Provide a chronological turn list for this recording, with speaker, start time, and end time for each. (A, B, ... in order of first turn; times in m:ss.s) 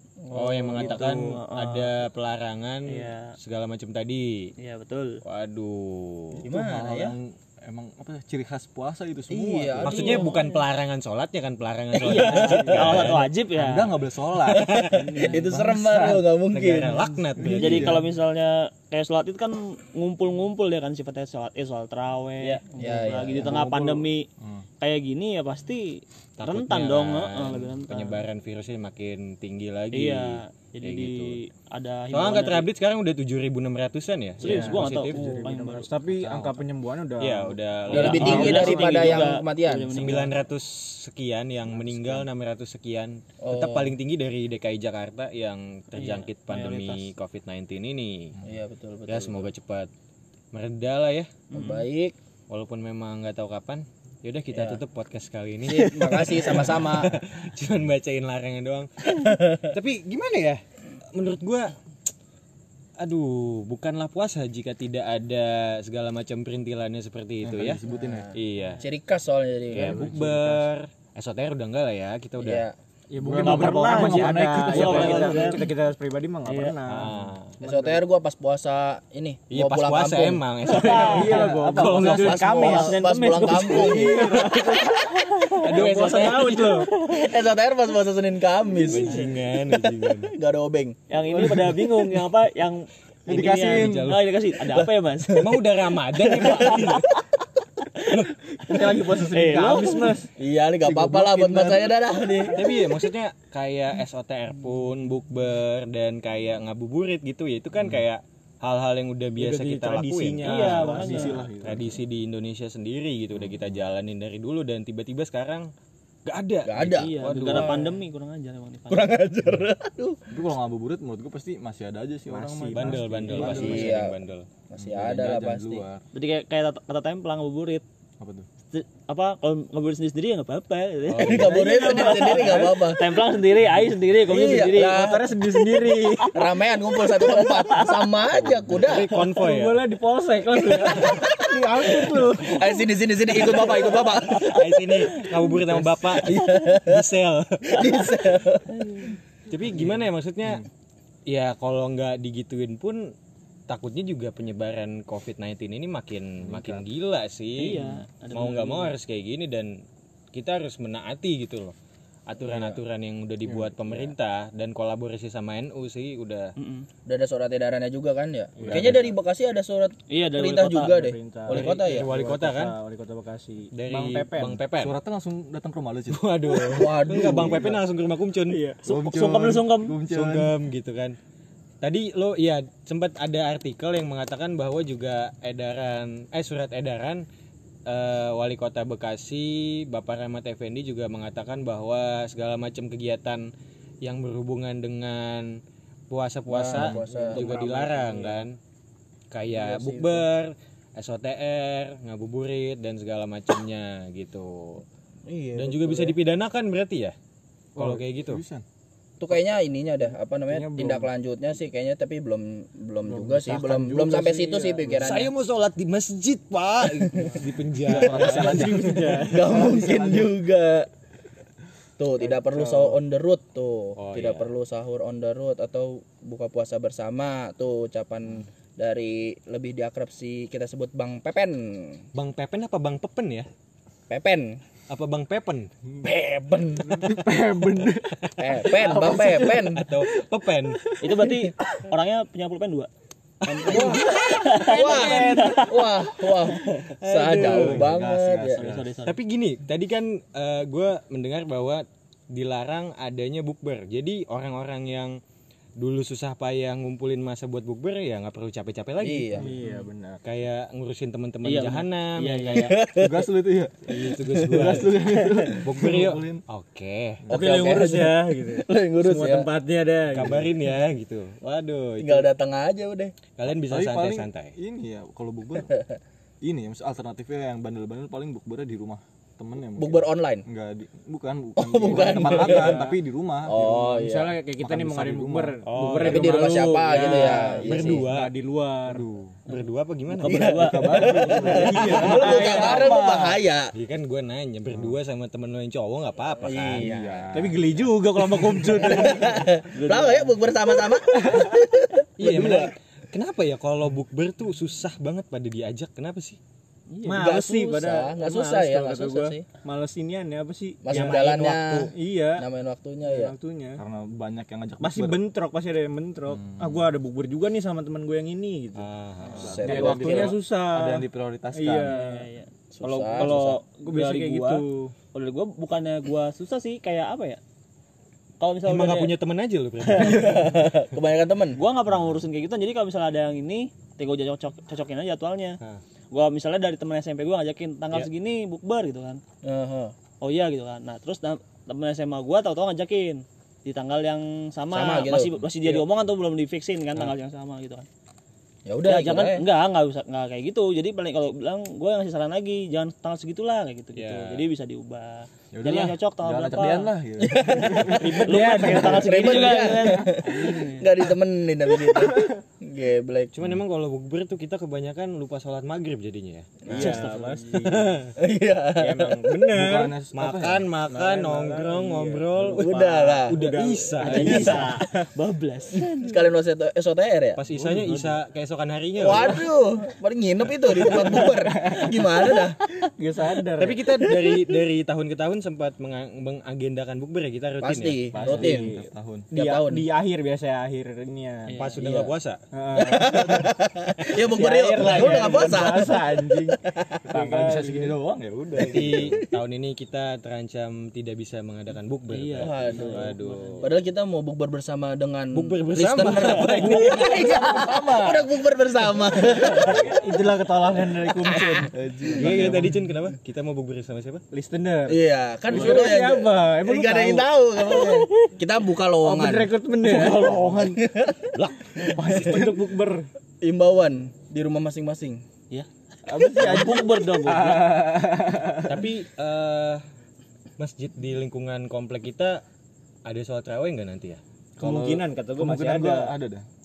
0:00.3-0:04.5 A
0:00.5-0:01.0 B
0:00.7-0:02.0 C
0:02.9-0:03.3 C
0:04.6-0:05.2 C
0:05.2-0:06.4 A
0:06.4-0:10.3 D
0:06.4-0:07.2 B
0:09.3-0:10.6 B
0:09.8-0:13.2 A
0:12.0-0:14.0 C
0:12.0-0:12.8 B
0:12.7-0:16.2 D
0:14.5-0:17.2 B
0:14.5-0:15.0 A
0:14.9-0:15.4 C
0:16.5-0:18.0 A
0:17.4-0:18.1 D
0:17.5-0:24.3 C
0:22.7-0:23.6 B
0:23.4-0:24.6 D
0:24.8-0:28.2 C
0:26.4-0:31.4 A
0:29.9-0:32.7 C
0:32.1-0:35.2 A
0:34.4-0:35.9 C
0:34.4-0:39.3 E
0:35.2-0:35.5 B
0:36.0-0:36.7 D
0:37.2-0:38.6 A
0:37.9-0:40.1 B
0:37.9-0:40.4 C
0:40.0-0:48.4 A
0:41.7-0:42.3 D
0:43.4-0:43.9 B
0:46.0-0:47.1 C
0:48.4-0:49.5 B
0:49.1-0:49.9 A
0:50.5-0:51.3 A
0:51.5-0:51.8 C
0:51.5-0:52.2 B
0:52.5-1:00.6 A
0:54.5-0:54.8 B
0:55.6-0:57.1 B
1:01.1-1:01.7 A
1:03.0-1:07.8 A
1:07.4-1:08.3 D
1:08.0-1:08.3 B
1:08.3-1:08.8 A
1:08.8-1:10.1 B
1:09.7-1:12.7 A
1:09.8-1:10.6 E
1:10.1-1:10.4 D
1:12.4-1:12.7 B
1:13.1-1:18.0 E
1:13.2-1:15.5 D
1:13.4-1:15.7 C
1:14.7-1:15.4 A
1:16.4-1:16.8 C
1:16.8-1:17.5 A
1:17.6-1:20.4 B
1:19.5-1:21.4 A
1:20.6-1:27.2 C
1:20.8-1:23.0 E
1:20.8-1:22.9 D
1:22.0-1:24.8 B
1:23.6-1:24.9 E
1:25.6-1:26.8 A
1:25.7-1:26.9 E
1:27.0-1:31.0 B
1:28.8-1:30.3 A
1:31.1-1:35.6 C
1:31.3-1:32.2 D
1:33.3-1:34.3 D
1:35.3-1:37.1 A
1:36.3-1:37.1 B
1:36.3-1:37.0 C
1:38.1-1:38.4 A
1:38.6-1:40.3 E
1:38.8-1:40.2 C
1:39.2-1:39.6 D
1:40.4-1:42.6 B
1:40.8-1:42.5 D
1:42.5-1:55.7 A
1:49.4-1:51.4 E
1:50.4-1:51.4 C
1:50.7-1:52.0 D
1:56.2-1:57.8 A
1:56.6-1:57.9 B
1:57.0-1:59.1 C
1:58.9-2:00.2 B
2:00.3-2:04.0 D
2:02.3-2:03.7 E
2:02.7-2:04.5 A
2:03.4-2:04.1 B
2:04.7-2:05.8 B
2:04.8-2:06.0 D
2:06.1-2:07.8 C
2:08.2-2:08.4 D
2:08.7-2:15.0 C
2:11.1-2:11.6 A
2:11.2-2:13.2 B
2:12.0-2:12.8 E
2:14.2-2:15.6 B
2:14.8-2:16.4 E
2:16.3-2:19.1 B
2:17.0-2:18.0 C
2:18.4-2:18.7 D
2:18.7-2:19.9 A
2:19.1-2:22.8 E
2:20.5-2:24.6 B
2:23.3-2:24.6 C
2:24.4-2:28.1 A
2:25.1-2:25.5 C
2:26.2-2:27.1 B
2:27.7-2:28.8 B
2:28.7-2:29.2 C
2:29.5-2:30.6 A
2:31.3-2:33.1 A
2:33.7-2:39.8 A
2:36.4-2:36.8 D
2:37.6-2:38.9 C
2:40.3-2:41.7 A
2:42.3-2:46.5 A
2:43.4-2:44.1 D
2:46.6-2:46.9 C
2:47.1-2:52.1 B
2:48.6-2:49.0 E
2:48.6-2:49.1 D
2:50.1-2:51.1 C
2:50.9-2:54.6 E
2:51.5-2:52.8 A
2:53.7-2:55.0 A
2:54.8-2:57.8 D
2:56.1-2:58.6 A
2:56.7-2:57.8 B
2:58.5-2:58.8 E
2:58.8-3:00.5 D
2:58.8-3:00.0 C
3:00.0-3:01.2 A
3:01.8-3:07.2 A
3:07.8-3:13.5 A
3:14.0-3:15.6 A
3:16.1-3:18.6 A
3:16.5-3:17.4 B
3:16.7-3:18.4 E
3:19.3-3:24.8 A
3:19.5-3:20.3 B
3:25.3-3:26.2 B
3:25.6-3:27.1 A
3:27.8-3:28.4 A
3:27.8-3:28.6 D
3:29.2-3:35.3 B
3:30.5-3:31.1 E
3:33.0-3:35.2 E
3:35.0-3:38.9 A
3:36.8-3:37.3 B
3:37.8-3:39.3 D
3:38.0-3:40.9 B
3:38.0-3:40.3 E
3:42.0-3:52.0 B
3:42.4-3:43.0 E
3:44.0-3:44.5 A
3:52.1-3:53.5 A
3:54.1-3:54.6 B
3:54.9-3:55.7 A
3:55.9-3:57.1 B
3:56.9-3:58.0 D
3:57.0-3:58.1 E
3:58.3-4:00.9 A
3:58.4-3:59.8 B
3:58.7-3:59.7 E
4:01.0-4:02.9 C
4:03.4-4:05.8 C
4:03.4-4:08.6 B
4:03.7-4:04.0 A
4:04.6-4:05.7 E
4:04.9-4:05.3 A
4:06.7-4:07.9 A
4:07.3-4:09.0 D
4:08.5-4:09.2 C
4:09.0-4:15.2 A
4:15.8-4:19.4 A
4:19.0-4:19.5 B
4:19.4-4:20.2 E
4:20.2-4:22.7 A
4:21.4-4:22.8 C
4:22.5-4:23.3 B
4:23.0-4:26.4 D
4:23.9-4:27.2 A
4:24.5-4:25.6 B
4:27.3-4:29.5 B
4:27.3-4:30.5 E
4:30.1-4:32.3 A
4:32.0-4:33.1 B
4:33.4-4:34.5 A
4:33.4-4:35.8 D
4:36.4-4:43.9 D
4:39.8-4:40.4 B
4:41.6-4:42.9 B
4:42.0-4:43.0 E
4:43.4-4:44.4 B
4:43.9-4:49.1 E
4:44.5-4:45.6 D
4:45.6-4:48.3 A
4:46.0-4:48.0 B
4:48.8-4:49.4 D
4:49.5-4:50.4 A
4:50.1-4:52.4 C
4:50.2-4:53.7 B
4:50.4-4:53.4 D
4:51.3-4:53.0 E
4:51.8-4:52.4 A
4:53.7-4:56.9 A
4:56.4-4:57.4 B
4:56.8-4:57.6 D
4:57.3-4:59.4 E
4:58.4-5:02.7 B
4:59.0-5:00.3 C
5:01.2-5:01.5 D
5:02.2-5:06.4 A
5:06.9-5:12.4 E
5:07.0-5:09.4 B
5:10.8-5:13.3 B
5:13.0-5:13.8 E
5:13.8-5:15.2 D
5:14.8-5:18.9 E
5:16.3-5:16.9 D
5:18.8-5:19.8 A
5:19.4-5:22.0 D
5:19.4-5:20.4 B
5:19.6-5:22.3 E
5:21.8-5:27.4 C
5:22.7-5:23.6 B
5:22.8-5:24.9 E
5:28.4-5:29.1 C
5:28.6-5:30.5 A
5:29.8-5:30.4 C
5:30.0-5:31.6 B
5:31.6-5:35.6 C
5:36.1-5:39.2 C
5:39.4-5:39.9 B
5:40.2-5:47.9 C
5:44.7-5:45.3 B
5:48.6-5:49.4 B
5:48.8-5:56.9 C
5:53.9-5:54.4 A
5:55.5-6:00.1 D
5:57.2-6:03.3 B
5:57.9-6:00.9 C
5:58.0-5:59.1 E
6:01.8-6:02.3 D
6:03.3-6:06.7 A
6:06.7-6:07.0 B
6:06.7-6:08.1 E
6:06.7-6:07.4 C
6:07.6-6:08.1 A
6:08.2-6:09.4 B
6:08.8-6:14.7 A
6:09.5-6:10.7 D
6:10.9-6:15.0 E
6:12.6-6:13.4 B
6:14.0-6:16.2 C
6:14.1-6:14.6 B
6:15.7-6:17.4 B
6:17.3-6:19.5 A
6:17.6-6:18.1 D
6:17.6-6:18.0 E
6:19.0-6:22.7 B
6:20.8-6:23.8 E
6:23.6-6:28.0 A
6:24.0-6:24.3 B
6:27.6-6:28.7 B
6:28.1-6:31.7 E
6:28.1-6:29.3 D
6:29.3-6:29.8 B
6:31.5-6:31.8 C
6:31.5-6:32.4 A
6:31.8-6:32.1 B
6:32.5-6:33.5 E
6:32.8-6:37.0 B
6:34.1-6:36.6 E
6:37.1-6:39.2 D
6:37.1-6:38.0 E
6:38.6-6:43.6 A
6:38.6-6:39.2 B
6:42.1-6:43.7 C
6:42.4-6:50.0 B
6:42.8-6:43.6 E
6:45.3-6:47.3 A
6:46.6-6:48.3 D
6:49.3-6:51.7 E
6:49.5-6:49.8 D
6:51.0-6:52.2 B
6:51.7-6:52.8 D
6:52.1-6:54.2 A
6:54.3-6:58.1 E
6:54.9-7:02.5 B
6:55.5-6:55.9 D
6:59.0-7:00.8 E
7:00.0-7:00.7 D
7:01.8-7:03.1 E
7:03.4-7:05.2 B
7:05.5-7:07.8 C
7:06.1-7:08.4 E
7:06.2-7:08.7 D
7:08.7-7:09.8 A
7:10.6-7:12.4 A
7:13.0-7:14.2 A
7:14.6-7:16.1 E
7:14.6-7:16.4 D